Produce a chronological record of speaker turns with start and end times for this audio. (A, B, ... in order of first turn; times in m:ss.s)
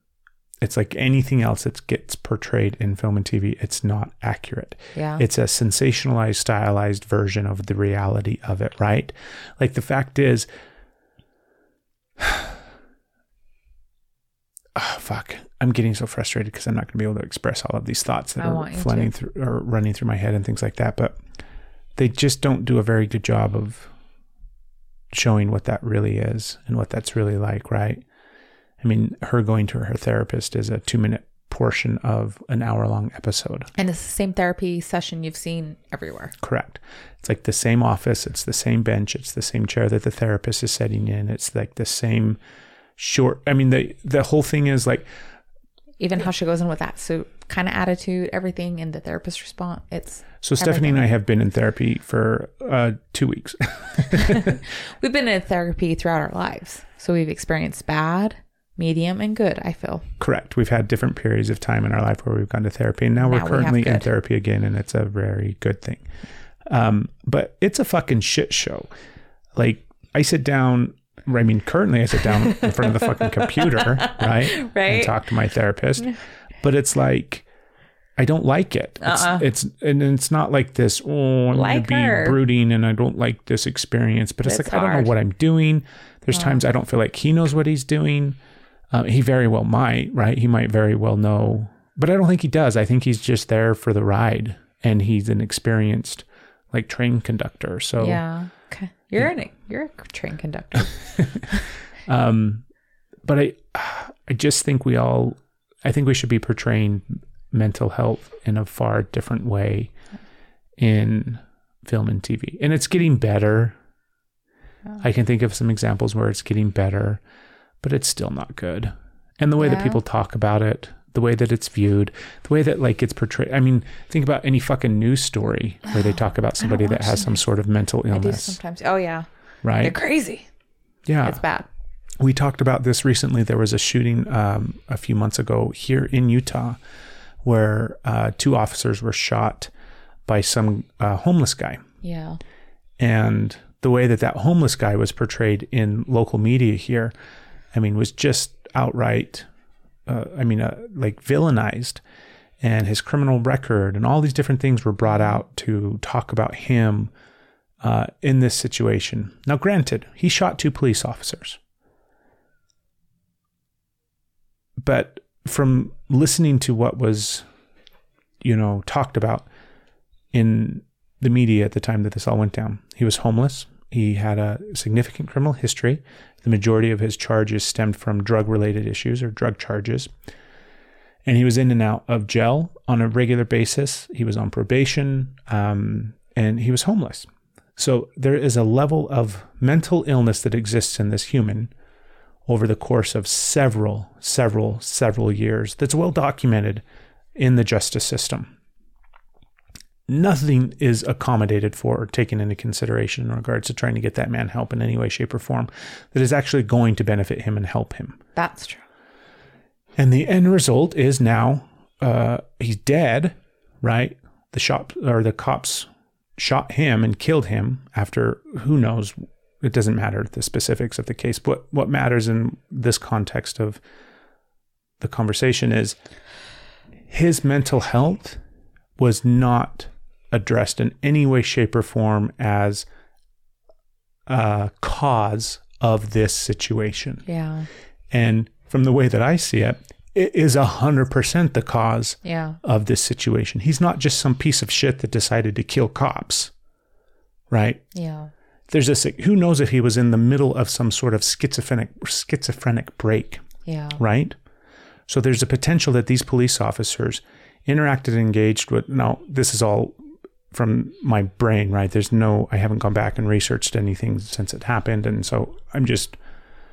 0:00.6-0:10.5 A
0:05.0-0:05.2 B
0:12.2-0:12.5 A
0:14.8-0:21.2 A
0:18.4-0:19.1 B
0:22.0-0:23.9 A
0:25.1-0:28.0 A
0:28.8-0:33.7 A
0:33.8-0:36.3 B
0:36.4-0:42.4 A
0:43.0-0:45.1 A
0:46.0-0:51.0 B
0:50.4-0:54.6 A
0:54.2-1:00.1 B
1:00.2-1:06.0 A
1:03.2-1:04.1 B
1:06.7-1:08.9 A
1:09.6-1:17.4 A
1:12.3-1:15.2 B
1:18.2-1:28.4 A
1:19.0-1:19.5 B
1:21.5-1:22.4 B
1:24.4-1:25.1 B
1:26.3-1:26.6 B
1:28.9-1:38.2 A
1:38.0-1:41.6 B
1:41.2-1:41.5 A
1:42.1-1:42.6 A
1:43.2-1:49.9 A
1:50.8-1:53.8 A
1:55.0-1:57.2 A
1:57.8-2:08.6 A
1:59.6-2:00.0 B
2:06.6-2:07.4 B
2:08.1-2:09.3 B
2:09.6-2:10.0 A
2:09.8-2:10.5 B
2:11.1-2:11.4 A
2:11.2-2:11.7 B
2:12.2-2:16.8 A
2:17.4-2:19.7 A
2:20.3-2:21.8 A
2:22.0-2:22.4 B
2:23.0-2:27.1 A
2:27.7-2:29.5 A
2:30.1-2:32.0 A
2:32.6-2:37.1 A
2:37.8-2:41.6 A
2:44.8-2:47.4 A
2:48.4-2:49.5 A
2:50.3-3:00.1 A
3:01.3-3:11.7 A
3:12.5-3:16.8 A
3:17.4-3:18.5 A
3:20.1-3:28.2 A
3:28.4-3:28.8 B
3:30.0-3:43.8 A
3:45.0-3:46.0 A
3:47.1-3:48.4 A
3:49.0-3:52.9 A
3:54.3-3:57.2 A
3:57.3-3:57.7 B
3:58.1-4:06.5 A
4:02.2-4:02.6 B
4:07.5-4:07.8 A
4:07.9-4:08.3 B
4:08.7-4:13.4 A
4:13.6-4:14.0 B
4:14.0-4:14.4 A
4:15.1-4:20.0 A
4:20.5-4:26.2 A